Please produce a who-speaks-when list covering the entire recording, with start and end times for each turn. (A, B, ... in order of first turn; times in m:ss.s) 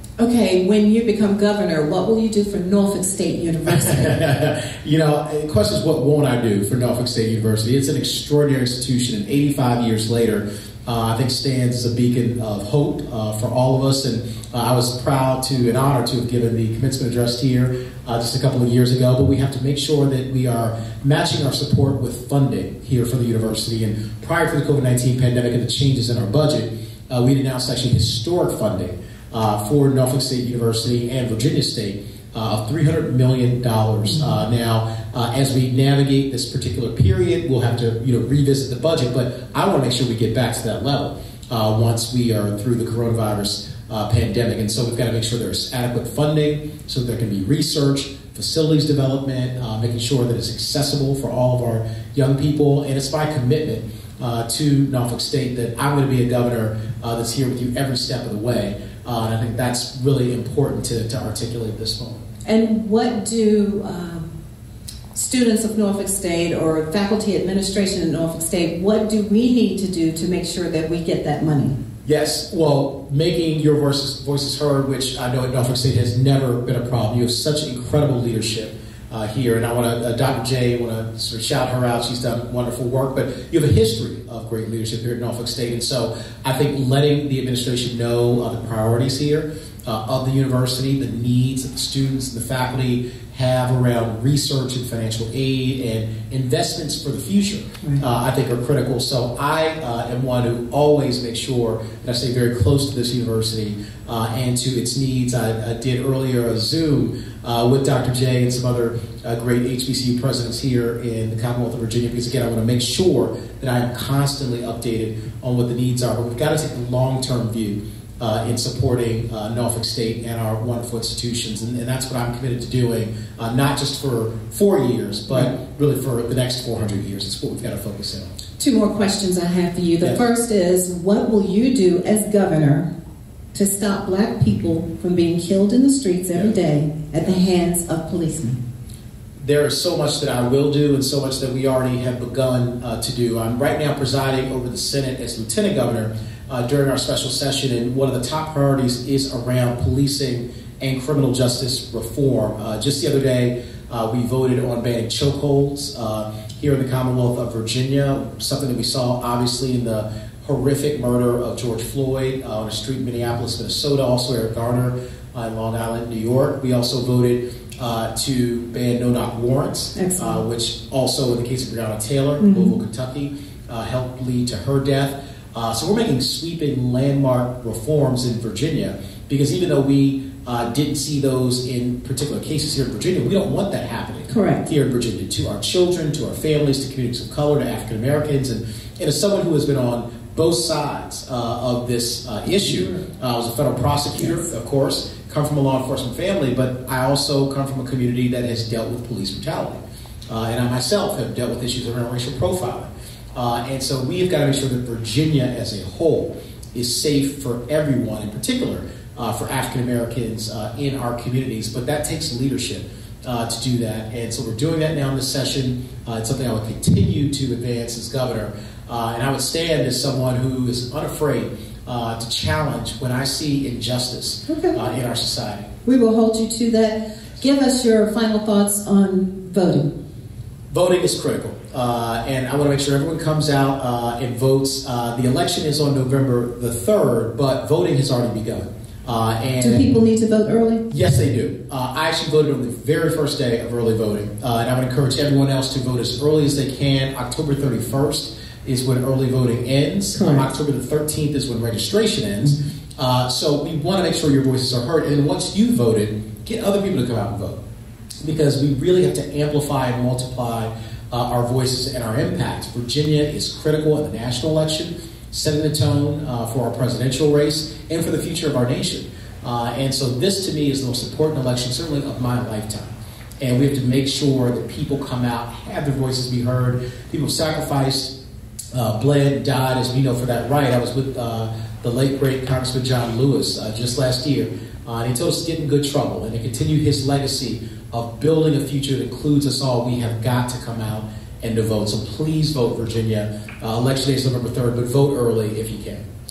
0:00.2-0:04.2 A
0:03.7-1:02.2 B
1:02.5-1:04.3 A
1:05.1-1:11.8 A
1:12.0-2:08.3 B
2:08.6-2:12.9 A
2:10.0-2:10.3 B
2:13.5-2:18.6 A
2:19.4-3:45.7 B
2:50.0-2:50.4 A
2:52.4-2:52.7 A
3:04.3-3:04.6 A
3:12.5-3:13.0 A
3:44.5-3:44.8 A
3:45.8-3:49.9 A
3:50.7-3:59.9 B
3:59.6-4:00.8 A
4:00.9-4:17.6 B
4:10.1-4:10.5 A
4:18.2-4:38.1 B
4:38.7-4:56.0 B